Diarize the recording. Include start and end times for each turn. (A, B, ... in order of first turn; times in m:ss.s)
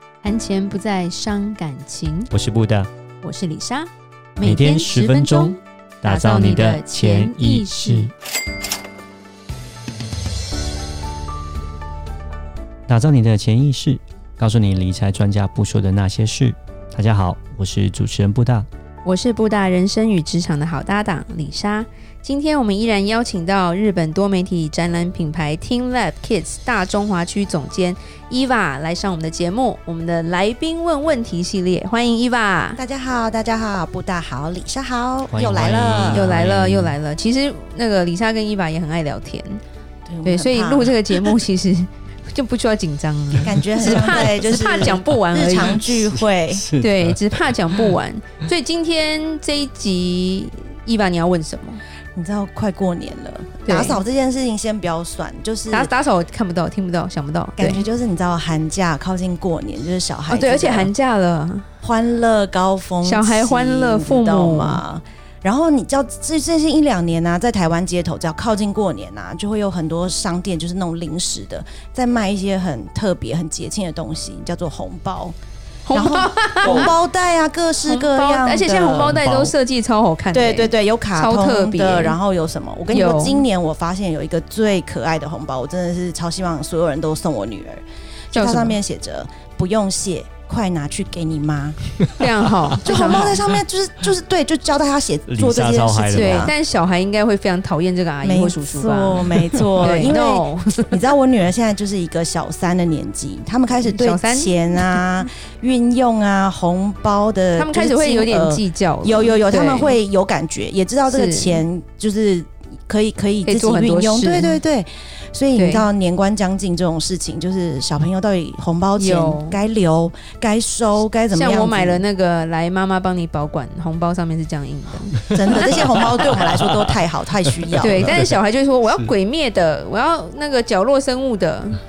0:00.2-0:02.3 A
0:02.3-0:02.9 B
0:03.2-0:08.1 A
0:04.4-0:08.1 B
0:12.9-0:18.7 B
0:19.0-0:32.8 A
0:32.8-0:36.3 C
0:35.3-0:37.0 B
0:36.1-0:39.6 A
0:40.1-0:41.4 C
0:40.2-0:45.9 A
0:43.4-0:46.7 C
0:43.8-0:44.2 B
0:46.5-0:47.5 B
0:46.8-0:51.8 A
0:52.2-0:55.9 C
0:53.7-0:54.0 A
0:55.7-0:57.9 A
0:57.6-1:00.9 C
1:00.3-1:01.7 A
1:01.8-1:15.4 C
1:03.0-1:04.8 A
1:15.9-1:16.9 A
1:15.9-1:19.2 C
1:17.8-1:22.2 A
1:18.9-1:19.5 B
1:20.3-1:31.8 C
1:22.9-1:23.4 A
1:28.3-1:28.8 A
1:32.2-1:33.4 A
1:32.8-1:36.5 C
1:35.3-1:36.5 B
1:36.1-1:39.3 A
1:38.2-2:02.0 C
1:39.6-1:40.0 B
1:39.8-1:41.0 A
1:43.7-1:45.0 A
1:47.6-1:50.0 A
1:51.1-1:51.6 A
1:53.4-1:54.6 A
1:55.6-1:55.9 A
1:59.0-1:59.6 A
2:01.3-2:06.1 A
2:05.3-2:08.2 C
2:05.4-2:06.9 B
2:07.7-2:08.4 B
2:07.8-2:11.8 A